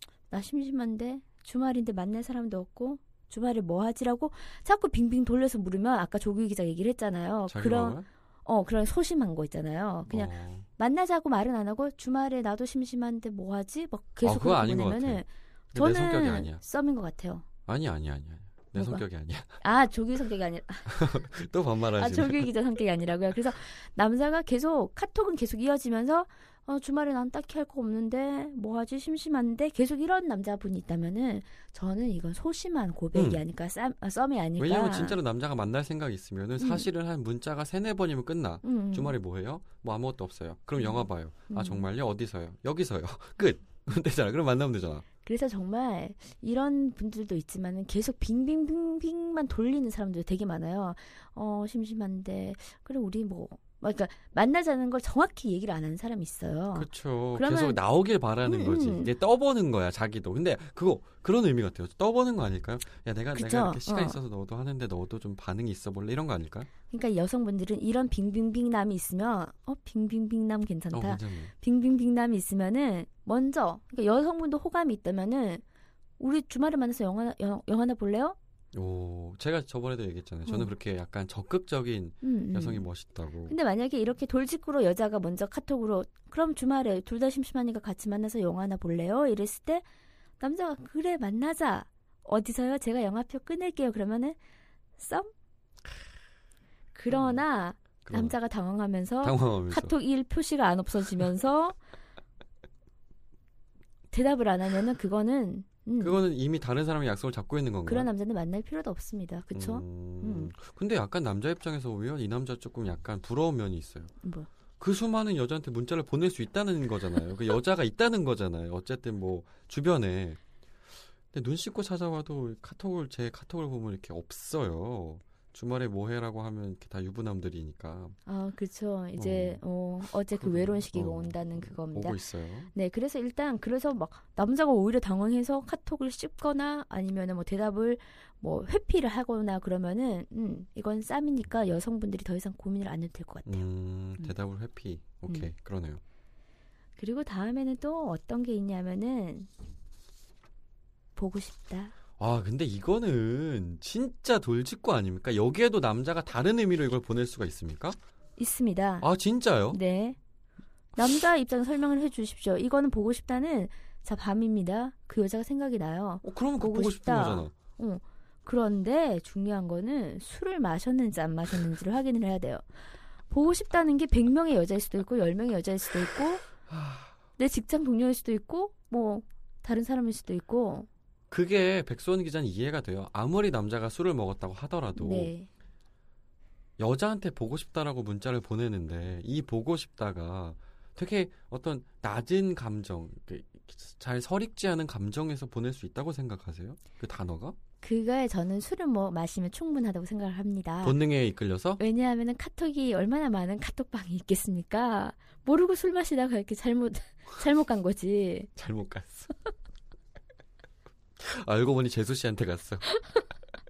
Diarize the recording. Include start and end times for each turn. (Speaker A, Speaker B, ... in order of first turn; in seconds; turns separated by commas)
Speaker A: 0.3-17.4, Speaker B: 7.5-8.1, Speaker B: 10.1-10.7, Speaker B: 14.2-16.6, Speaker B: 17.7-19.6, Speaker A: 18.8-19.0, Speaker A: 19.6-21.1, Speaker B: 20.9-22.5, Speaker A: 22.0-35.2, Speaker B: 33.1-33.4, Speaker B: 34.6-45.0, Speaker A: 36.6-36.9, Speaker A: 38.6-39.2, Speaker A: 40.8-41.9, Speaker A: 45.2-57.8, Speaker B: 56.8-66.7, Speaker A: 58.5-59.1, Speaker A: 63.3-64.2, Speaker A: 66.9-75.6, Speaker B: 70.9-71.5, Speaker A: 76.2-78.4, Speaker B: 78.7-83.5, Speaker A: 82.2-82.8, Speaker A: 83.5-89.8, Speaker A: 90.4-94.4, Speaker A: 95.0-95.3, Speaker A: 96.9-101.8, Speaker B: 98.0-98.3, Speaker B: 99.2-99.9, Speaker A: 104.1-106.2, Speaker B: 106.0-108.1, Speaker A: 107.9-110.5, Speaker B: 109.5-114.1, Speaker A: 114.2-114.5, Speaker B: 114.8-120.4, Speaker B: 121.3-128.2, Speaker A: 128.3-132.2, Speaker B: 129.2-132.7, Speaker A: 132.7-143.7, Speaker B: 143.5-146.0, Speaker A: 147.0-149.5, Speaker A: 151.2-151.9, Speaker B: 152.2-158.0, Speaker A: 158.4-159.1, Speaker B: 159.0-159.8, Speaker A: 159.7-160.2, Speaker A: 161.0-172.7, Speaker B: 166.2-167.5, Speaker A: 173.3-176.5, Speaker B: 176.7-177.1, Speaker A: 177.4-180.9, Speaker B: 181.3-185.3, Speaker A: 185.0-185.5, Speaker B: 186.8-197.6, Speaker A: 197.8-201.0, Speaker B: 200.8-201.8, Speaker A: 201.8-208.5, Speaker B: 208.6-209.3, Speaker B: 211.2-212.9